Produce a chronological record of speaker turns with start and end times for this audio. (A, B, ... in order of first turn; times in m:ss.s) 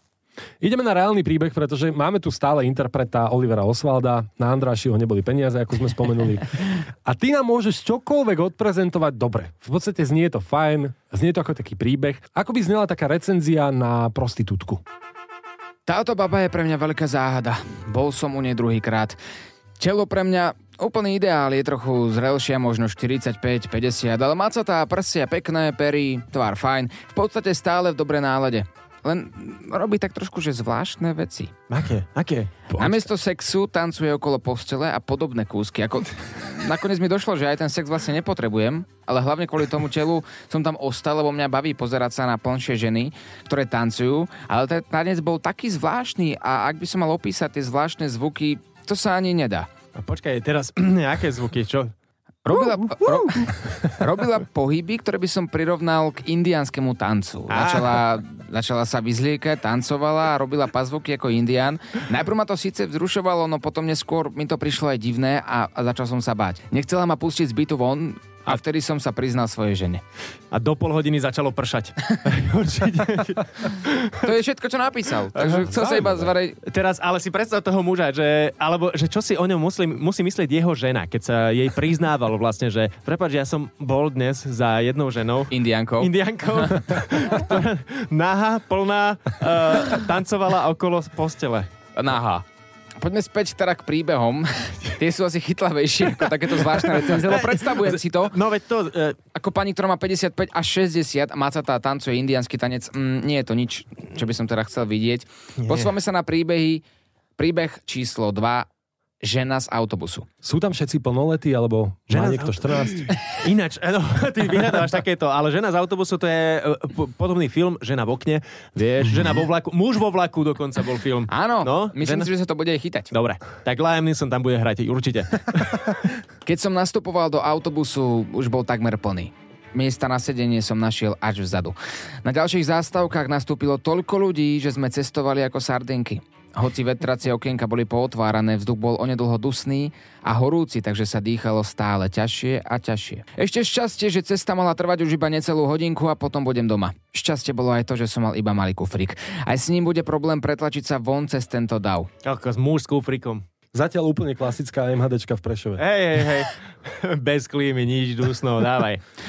0:00.6-0:14.8 A
0:15.9-0:19.2 B
0:19.8-0:31.5 B
0:31.7-0:33.0 C
0:32.7-0:49.7 B
0:50.0-0:51.9 C
0:52.4-1:10.0 B
0:53.0-0:53.5 A
0:57.5-0:58.0 C
1:10.5-1:14.3 C
1:14.2-1:16.6 B
1:15.4-1:15.7 C
1:15.7-1:16.3 A
1:16.6-1:31.7 C
1:25.5-1:26.1 B
1:32.0-1:32.4 B
1:33.0-1:38.4 B
1:36.8-1:39.2 C
1:39.4-1:46.8 B
1:45.6-1:45.9 C
1:47.4-1:48.7 B
1:49.2-1:50.3 B
1:50.4-1:53.1 A
1:52.1-2:02.3 C
2:01.3-2:03.1 B
2:03.1-2:06.0 C
2:06.4-2:32.1 B
2:32.2-2:33.4 C
2:33.7-2:35.8 A
2:35.8-2:39.0 C